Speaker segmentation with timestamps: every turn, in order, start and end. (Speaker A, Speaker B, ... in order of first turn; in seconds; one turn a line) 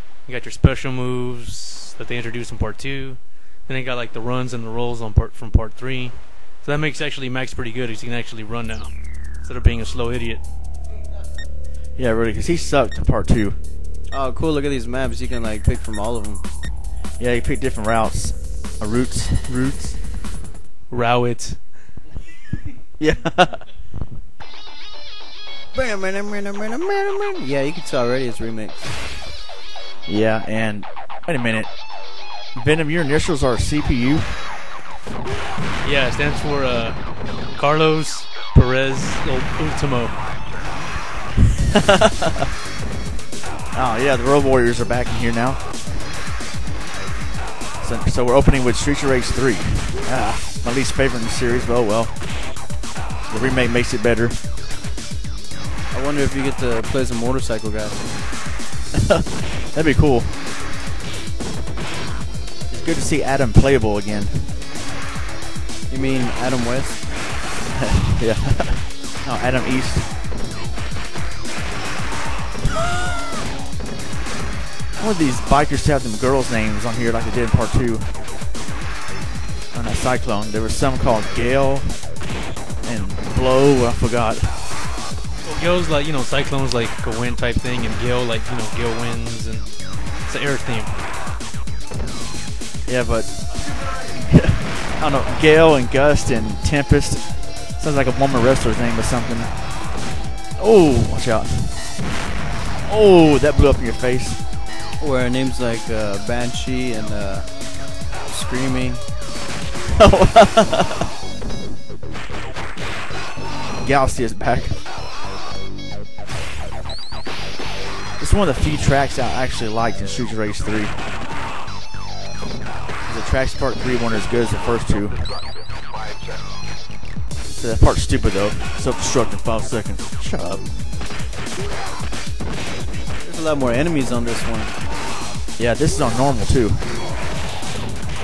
Speaker A: 0.3-10.4
Speaker B: 12.0-13.6
Speaker C: 14.1-16.4
Speaker B: 17.2-20.0
Speaker A: 20.9-21.6
Speaker B: 23.0-23.6
Speaker C: 25.7-28.9
Speaker B: 30.1-31.7
Speaker B: 32.5-34.3
Speaker A: 35.8-37.0
Speaker A: 37.5-40.2
Speaker B: 41.6-42.5
Speaker B: 43.7-45.6
Speaker B: 47.8-52.1
Speaker B: 53.3-54.4
Speaker C: 55.9-58.1
Speaker B: 58.9-60.3
Speaker B: 62.7-64.5
Speaker C: 65.9-67.0
Speaker B: 67.7-70.1
Speaker B: 75.0-78.1
Speaker B: 79.7-82.0
Speaker B: 82.8-84.5
Speaker A: 85.5-89.7
Speaker A: 90.3-90.9
Speaker B: 92.9-93.3
Speaker B: 94.0-97.3
Speaker B: 97.8-99.5
Speaker B: 100.6-101.8
Speaker B: 102.9-104.4
Speaker C: 105.0-107.5
Speaker C: 108.3-109.0
Speaker B: 109.9-111.1
Speaker B: 113.8-114.8
Speaker B: 118.2-121.0
Speaker B: 123.1-125.2
Speaker B: 127.5-130.6
Speaker C: 133.2-134.8
Speaker B: 135.6-136.8